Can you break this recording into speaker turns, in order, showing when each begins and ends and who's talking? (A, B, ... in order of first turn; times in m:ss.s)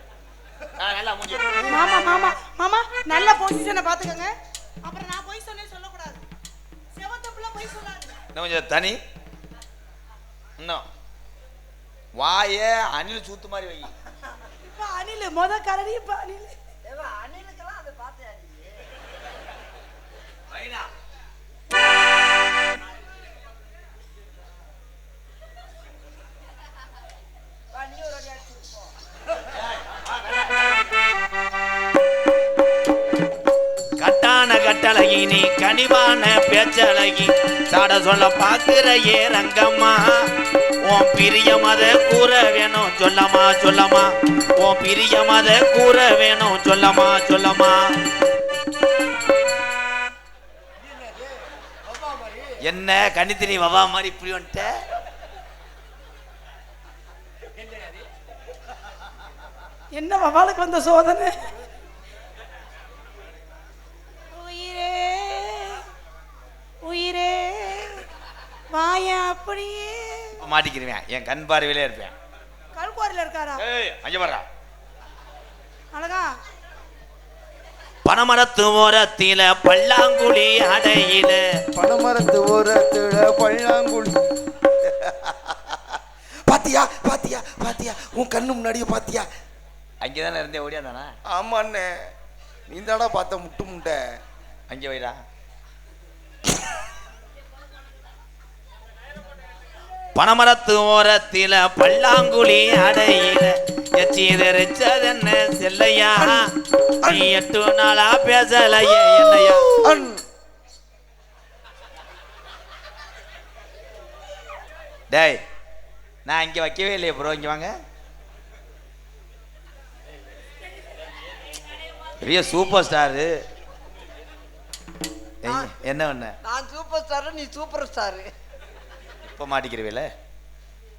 0:00.8-0:01.8 A
0:01.7-0:04.3 B
0:04.8-0:06.2 B
0:06.9-0:08.2 B
0:08.3-0:09.0 A
0:10.6-0:10.8 A
0:12.2-0:13.9 A
0:14.6-0:16.5 B
0:16.8-0:18.8 C
0:20.5-0:20.9 A
0:27.7-0:28.9 C
0:29.8-0:30.4 A
0:34.0-0:40.3 A
0:40.8-0:47.9 A
0:52.6-0:54.8 A
0:59.9-1:01.4 B
1:04.3-1:05.9 B
1:06.8-1:08.0 B
1:08.7-1:10.4 B
1:10.4-1:12.1 A
1:12.7-1:13.6 B
1:13.6-1:14.4 A
1:15.9-1:16.3 B
1:18.0-1:21.4 A
1:21.8-1:24.2 D
1:24.8-1:29.3 D
1:30.0-1:31.1 A
1:31.3-1:31.9 D
1:32.7-1:34.0 D
1:34.7-1:35.2 A
1:40.1-1:46.5 A
1:47.0-1:47.3 D
1:47.0-1:49.8 A
1:49.4-1:50.2 D
1:55.1-1:55.4 A
1:56.2-1:57.7 A
2:02.2-2:03.3 A
2:05.4-2:06.4 A
2:06.4-2:08.3 C
2:09.2-2:10.1 A